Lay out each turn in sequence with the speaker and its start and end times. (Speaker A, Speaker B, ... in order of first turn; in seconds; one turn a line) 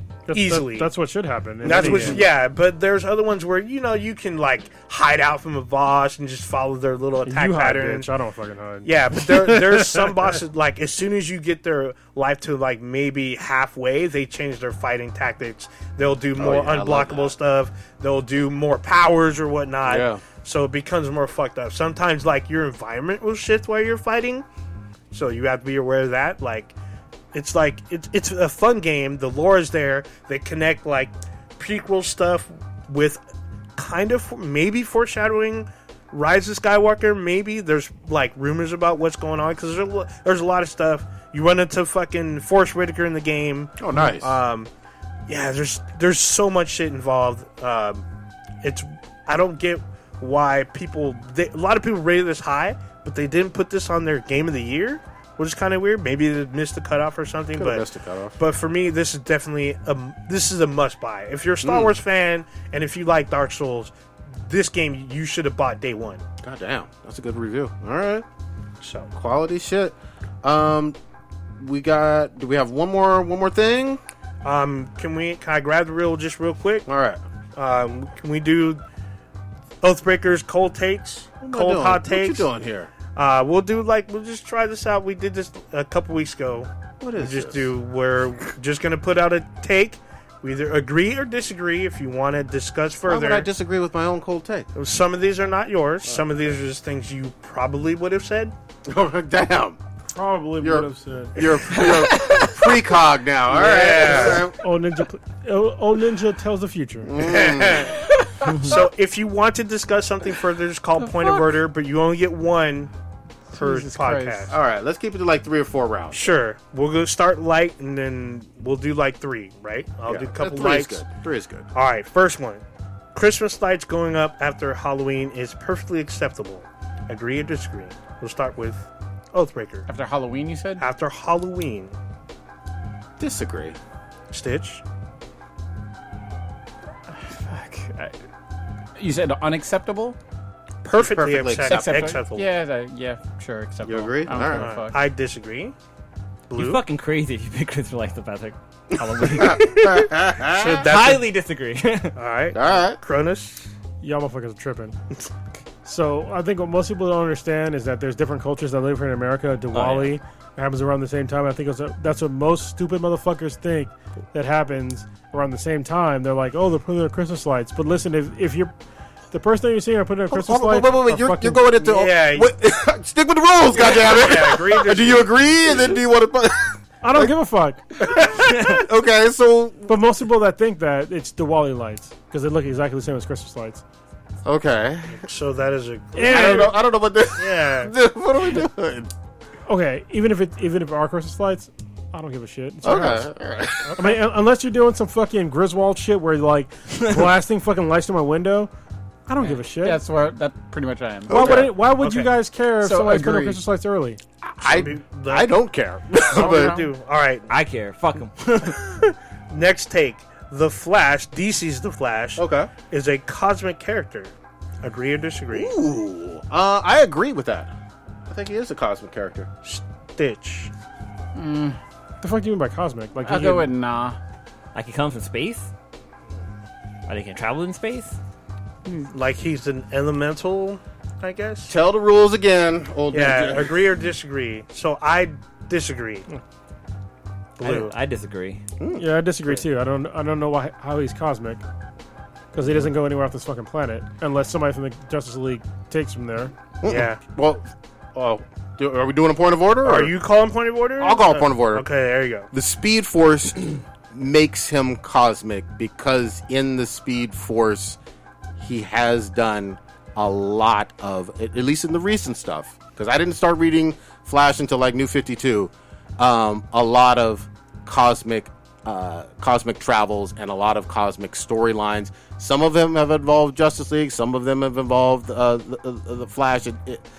Speaker A: 0.3-2.3
Speaker B: 0.3-0.9
Speaker B: 1.6-8.1
Speaker C: 1.7-2.2
Speaker A: 7.2-10.1
Speaker B: 8.8-24.5
Speaker C: 16.4-17.4
Speaker C: 19.8-20.2
Speaker B: 25.1-26.8
Speaker B: 27.3-33.2
Speaker B: 33.8-44.7
Speaker C: 43.8-44.4
Speaker B: 45.3-48.0
Speaker B: 48.6-57.9
Speaker C: 57.5-58.4
Speaker B: 58.4-66.2
Speaker C: 61.6-61.9
Speaker C: 66.4-68.2
Speaker B: 68.8-69.1
Speaker C: 69.1-71.0
Speaker C: 71.6-74.0
Speaker B: 74.4-76.9
Speaker C: 76.9-77.2
Speaker B: 77.5-78.8
Speaker B: 79.8-82.5
Speaker C: 81.4-82.9
Speaker B: 83.1-93.5
Speaker C: 87.0-87.7
Speaker C: 93.1-94.7
Speaker B: 94.8-98.5
Speaker C: 98.9-99.8
Speaker A: 100.1-101.4
Speaker C: 100.6-104.6
Speaker B: 103.5-104.5
Speaker A: 104.6-107.1
Speaker C: 107.1-108.0
Speaker B: 107.2-112.9
Speaker D: 111.0-111.4
Speaker D: 113.5-114.5
Speaker B: 113.5-114.5
Speaker C: 114.5-116.3
Speaker B: 116.1-121.0
Speaker C: 120.1-121.7
Speaker B: 121.7-129.9
Speaker D: 129.9-130.8
Speaker B: 130.8-131.9
Speaker C: 133.2-133.8
Speaker B: 134.3-134.8
Speaker D: 137.1-138.2
Speaker D: 139.0-140.2
Speaker B: 140.8-142.5
Speaker C: 140.9-142.2
Speaker D: 141.6-145.0
Speaker C: 143.8-144.8
Speaker B: 144.4-145.8
Speaker B: 146.5-146.8
Speaker E: 146.6-152.2
Speaker C: 149.2-150.9
Speaker B: 150.5-151.2
Speaker B: 152.2-153.7
Speaker C: 152.5-153.0
Speaker A: 154.0-155.0
Speaker A: 155.8-168.7
Speaker E: 159.7-160.2
Speaker A: 169.3-171.7
Speaker C: 170.3-177.3
Speaker B: 171.8-172.5
Speaker B: 173.8-176.0
Speaker A: 177.0-177.8
Speaker C: 178.0-179.9
Speaker A: 179.9-183.8
Speaker C: 184.4-185.3
Speaker B: 185.1-186.8
Speaker A: 186.2-186.7
Speaker C: 186.2-189.1
Speaker B: 187.4-187.9
Speaker A: 189.7-193.3
Speaker C: 192.8-194.0
Speaker B: 193.8-194.2
Speaker A: 194.0-198.7
Speaker A: 199.3-200.0
Speaker D: 199.4-201.7
Speaker C: 201.3-201.8
Speaker A: 201.3-204.2
Speaker B: 202.0-202.3
Speaker D: 202.8-203.6
Speaker C: 204.4-206.9
Speaker B: 204.6-205.5
Speaker B: 206.3-207.5
Speaker D: 206.4-206.9
Speaker E: 207.5-208.8
Speaker B: 208.8-215.7
Speaker C: 212.4-212.7
Speaker C: 215.5-217.7
Speaker C: 218.3-219.5
Speaker B: 219.6-220.7
Speaker D: 221.3-221.8
Speaker A: 222.2-223.7
Speaker D: 223.2-224.2
Speaker E: 224.7-225.7
Speaker E: 227.1-228.2
Speaker B: 229.1-231.7
Speaker C: 231.7-233.8
Speaker B: 233.1-236.3
Speaker B: 237.6-237.9
Speaker E: 237.6-238.6
Speaker C: 238.8-239.5
Speaker A: 239.0-241.6
Speaker A: 242.5-246.5
Speaker C: 246.8-250.2
Speaker B: 246.8-247.2
Speaker B: 249.8-252.5
Speaker C: 251.0-251.9
Speaker C: 252.5-258.0
Speaker C: 258.6-277.1